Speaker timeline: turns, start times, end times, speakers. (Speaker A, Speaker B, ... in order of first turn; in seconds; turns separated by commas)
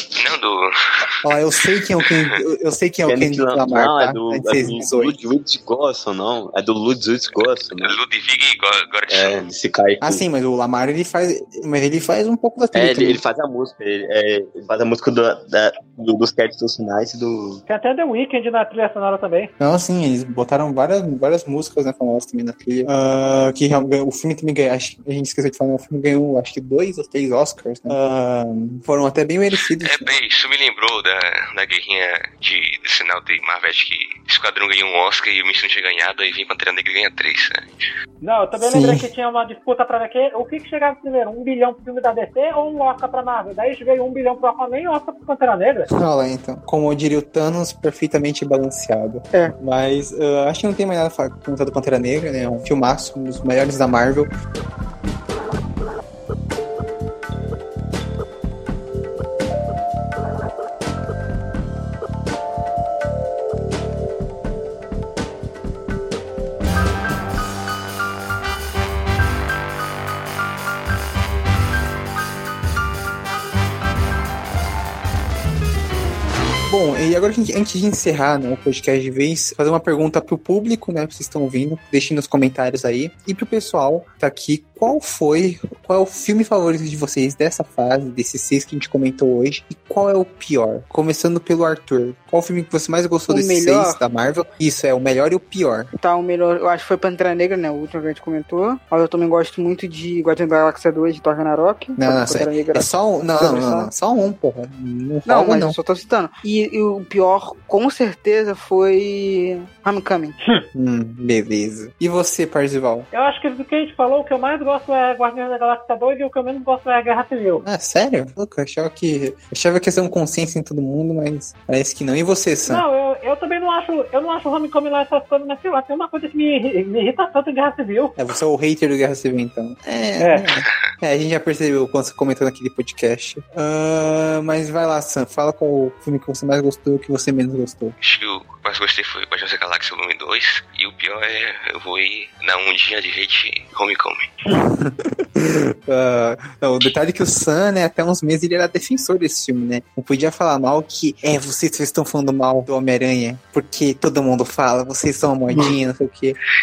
Speaker A: 0.2-1.3, Speaker B: 1.2-5.2, Speaker A: 2.0-2.3, Speaker C: 3.1-8.0, Speaker A: 7.7-9.4, Speaker C: 9.1-10.2, Speaker B: 10.0-13.2, Speaker C: 12.7-17.6, Speaker D: 17.7-19.5, Speaker B: 19.6-30.1, Speaker A: 29.8-37.7, Speaker D: 38.2-45.9, Speaker B: 38.6-39.1, Speaker B: 45.9-54.3, Speaker B: 76.7-95.9, Speaker E: 93.3-94.0, Speaker E: 96.0-103.9, Speaker B: 102.0-105.8, Speaker E: 105.2-110.3, Speaker B: 110.7-113.1, Speaker D: 113.1-117.6, Speaker B: 117.6-122.8, Speaker D: 122.7-128.2, Speaker B: 128.2-137.9, Speaker D: 130.2-130.5, Speaker A: 138.0-144.3, Speaker B: 144.5-156.3